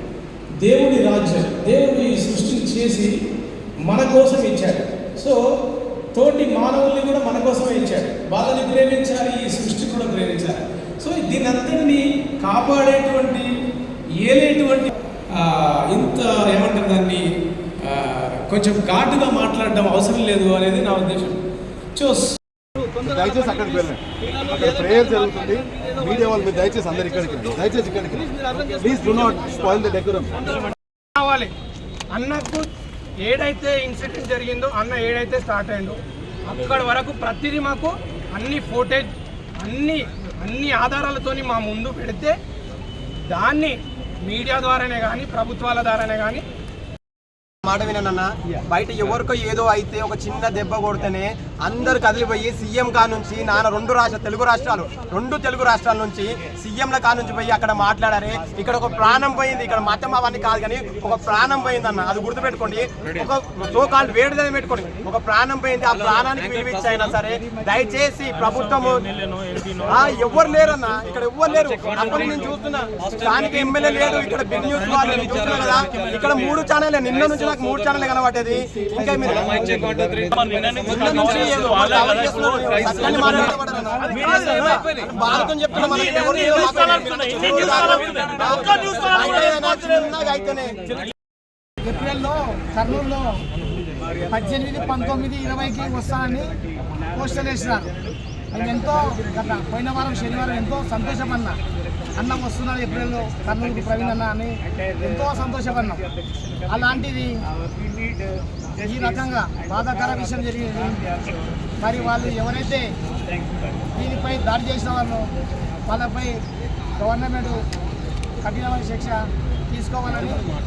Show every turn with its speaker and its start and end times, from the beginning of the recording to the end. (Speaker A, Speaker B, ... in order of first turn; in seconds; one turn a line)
Speaker A: 0.6-3.2
Speaker A: 3.8-5.4
Speaker A: 6.1-13.5
Speaker A: 14.2-21.4
Speaker A: 21.9-22.4
Speaker B: 22.8-26.4
Speaker C: 23.0-30.3
Speaker B: 28.4-29.7
Speaker B: 31.1-31.5
Speaker B: 32.1-32.7
Speaker B: 33.2-42.4
Speaker B: 43.3-46.4
Speaker D: 47.6-69.0
Speaker D: 69.8-79.8
Speaker A: 79.6-81.5
Speaker D: 80.8-90.9
Speaker A: 88.8-89.1
Speaker E: 91.8-93.4
Speaker E: 94.3-96.6
Speaker E: 97.1-97.9
Speaker E: 98.5-101.6
Speaker E: 102.1-106.0
Speaker E: 106.7-107.4
Speaker E: 108.8-111.0
Speaker E: 111.8-112.9
Speaker E: 113.9-115.3
Speaker E: 115.9-116.4
Speaker E: 117.0-117.7
Speaker E: 118.4-120.4